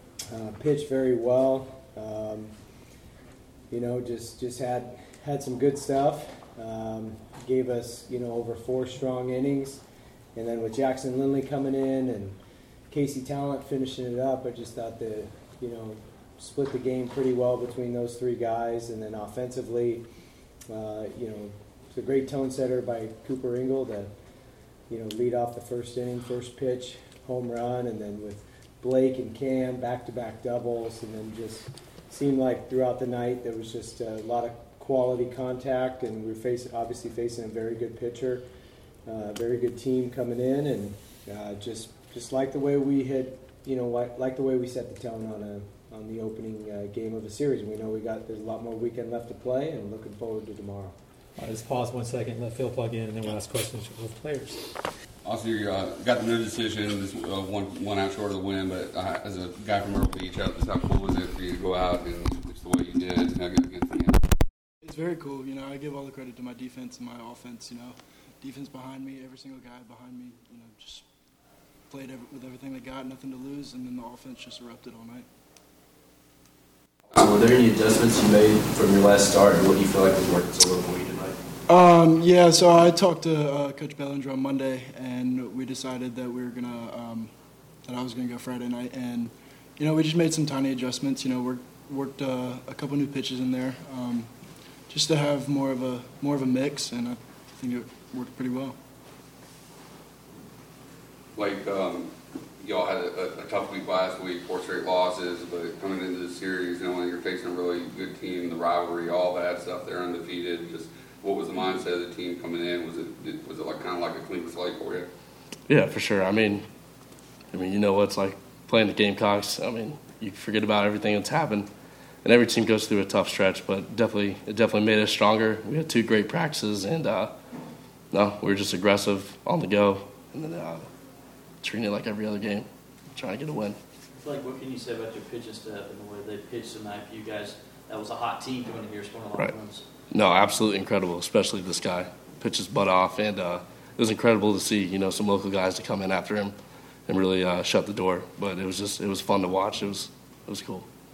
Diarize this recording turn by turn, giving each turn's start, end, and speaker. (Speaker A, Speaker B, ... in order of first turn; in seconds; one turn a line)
Speaker A: 0.3-2.5
Speaker A: 3.7-9.8
Speaker A: 10.4-12.4
Speaker A: 12.9-20.0
Speaker A: 20.7-24.1
Speaker A: 24.9-38.5
Speaker A: 39.1-51.0
Speaker B: 51.4-54.7
Speaker C: 55.2-64.2
Speaker D: 64.8-71.0
Speaker D: 71.9-75.3
Speaker E: 77.1-81.4
Speaker D: 81.7-87.3
Speaker D: 87.9-94.3
Speaker D: 94.9-98.8
Speaker C: 101.4-115.1
Speaker F: 115.7-116.7
Speaker F: 117.5-121.7
Speaker F: 122.2-127.3
Speaker F: 128.1-130.9
Speaker F: 131.6-133.8
Speaker G: 134.2-139.9
Speaker F: 140.1-146.6
Speaker F: 147.1-150.9